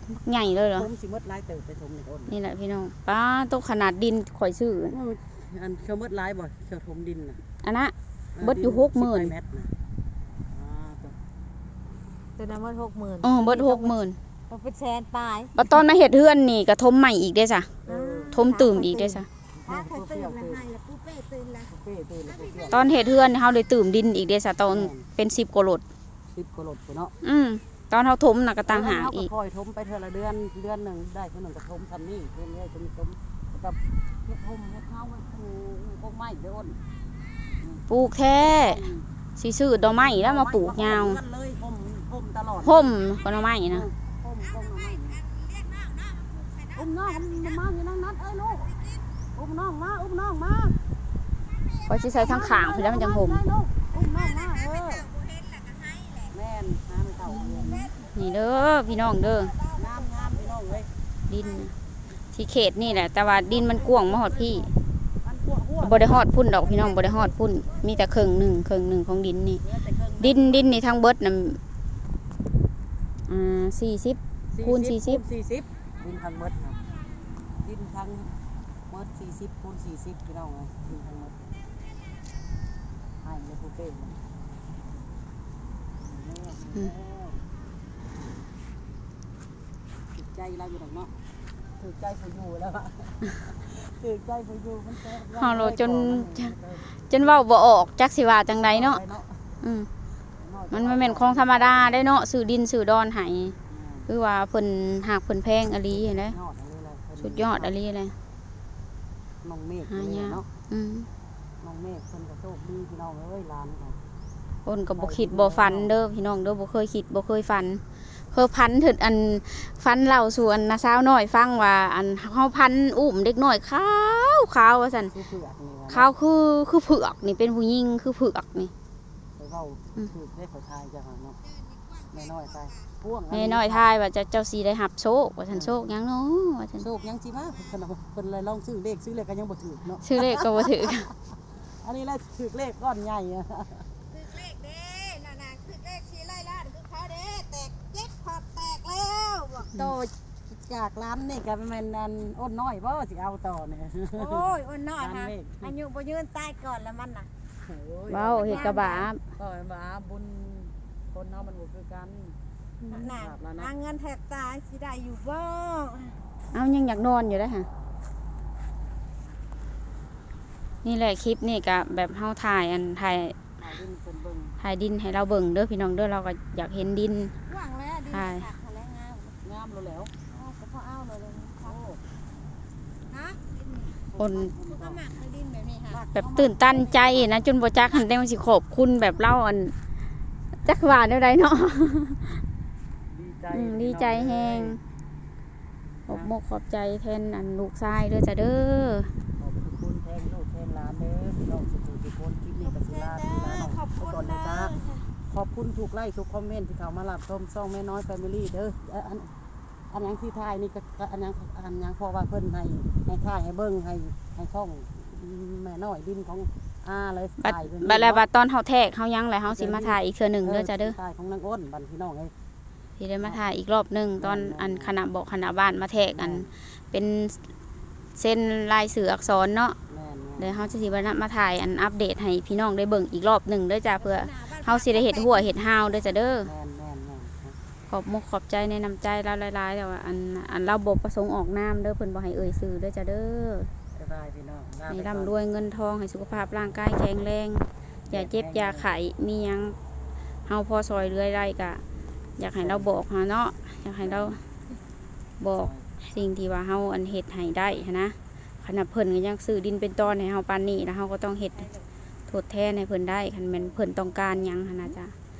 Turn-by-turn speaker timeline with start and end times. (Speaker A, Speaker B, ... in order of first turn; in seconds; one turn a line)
Speaker A: 0.2-0.9
Speaker B: 0.7-2.3
Speaker A: 2.3-5.0
Speaker B: 4.9-7.4
Speaker A: 7.6-9.3
Speaker B: 8.3-9.7
Speaker B: 10.5-11.2
Speaker C: 12.4-14.0
Speaker A: 13.2-14.2
Speaker C: 14.5-15.5
Speaker A: 15.5-17.7
Speaker B: 17.9-18.4
Speaker C: 17.9-21.7
Speaker A: 18.3-19.3
Speaker B: 19.6-20.6
Speaker B: 21.7-22.9
Speaker C: 22.2-22.9
Speaker A: 22.7-25.8
Speaker B: 24.7-25.1
Speaker B: 26.3-27.1
Speaker A: 27.2-29.3
Speaker B: 28.7-36.8
Speaker B: 37.6-37.8
Speaker A: 37.9-38.8
Speaker B: 38.4-39.1
Speaker A: 39.4-41.2
Speaker B: 39.8-45.2
Speaker A: 42.6-43.9
Speaker C: 44.6-47.5
Speaker B: 46.7-48.7
Speaker C: 48.7-49.0
Speaker B: 49.3-50.8
Speaker C: 51.5-52.4
Speaker A: 51.9-53.4
Speaker B: 52.2-55.1
Speaker C: 53.9-56.3
Speaker B: 56.3-57.9
Speaker C: 57.3-58.1
Speaker A: 58.1-59.5
Speaker C: 58.9-60.7
Speaker B: 59.7-60.9
Speaker A: 61.3-61.7
Speaker A: 62.3-64.7
Speaker B: 63.2-64.7
Speaker B: 65.2-66.3
Speaker A: 65.8-69.6
Speaker C: 66.6-68.1
Speaker B: 69.6-70.8
Speaker A: 70.2-71.6
Speaker A: 73.3-75.2
Speaker B: 74.5-76.8
Speaker B: 77.6-78.3
Speaker B: 78.9-81.4
Speaker B: 83.2-84.2
Speaker B: 86.0-87.4
Speaker B: 90.1-91.1
Speaker B: 91.8-97.5
Speaker A: 95.3-96.5
Speaker A: 97.1-99.0
Speaker B: 98.5-99.4
Speaker A: 99.6-99.9
Speaker B: 100.4-102.1
Speaker A: 100.7-103.5
Speaker B: 103.7-104.1
Speaker A: 104.1-106.3
Speaker B: 105.9-107.7
Speaker A: 107.2-108.1
Speaker B: 109.4-110.5
Speaker A: 109.9-111.1
Speaker B: 111.6-114.0
Speaker A: 114.7-117.8
Speaker B: 114.9-115.9
Speaker A: 118.3-125.1
Speaker B: 125.1-126.1
Speaker A: 125.9-128.7
Speaker B: 129.4-131.4
Speaker C: 131.7-132.1
Speaker B: 132.1-133.8
Speaker A: 133.3-136.9
Speaker B: 135.5-135.8
Speaker B: 136.8-140.9
Speaker A: 140.0-141.1
Speaker B: 141.6-143.8
Speaker C: 144.1-149.7
Speaker B: 149.7-154.4
Speaker C: 154.1-157.3
Speaker B: 155.0-155.7
Speaker B: 157.6-162.3
Speaker A: 158.1-159.2
Speaker C: 158.4-159.1
Speaker C: 162.8-166.2
Speaker B: 162.9-163.7
Speaker A: 166.5-167.7
Speaker A: 170.8-173.3
Speaker B: 173.6-174.6
Speaker A: 174.6-177.3
Speaker C: 177.4-179.4
Speaker A: 178.1-178.5
Speaker B: 179.4-180.1
Speaker C: 180.3-181.8
Speaker B: 181.6-182.0
Speaker C: 183.1-186.0
Speaker B: 184.1-185.0
Speaker A: 184.2-184.5
Speaker B: 185.9-187.5
Speaker A: 186.1-189.7
Speaker A: 190.6-192.4
Speaker B: 193.1-194.8
Speaker A: 193.5-194.8
Speaker B: 196.0-196.3
Speaker A: 196.1-199.1
Speaker B: 199.4-204.7
Speaker C: 202.6-205.1
Speaker B: 205.3-209.3
Speaker B: 209.9-218.2
Speaker A: 217.4-220.9
Speaker B: 219.5-222.3
Speaker A: 223.0-227.4
Speaker B: 224.2-224.9
Speaker B: 226.1-226.5
Speaker A: 228.2-229.8
Speaker B: 229.9-230.5
Speaker A: 230.4-236.5
Speaker C: 233.9-235.9
Speaker B: 236.4-237.6
Speaker A: 237.9-243.7
Speaker B: 243.9-245.3
Speaker A: 244.9-249.8
Speaker B: 248.1-248.9
Speaker A: 250.5-251.8
Speaker A: 252.4-254.4
Speaker B: 252.6-252.9
Speaker B: 254.0-254.4
Speaker A: 255.4-261.7
Speaker B: 255.5-255.8
Speaker A: 262.3-265.1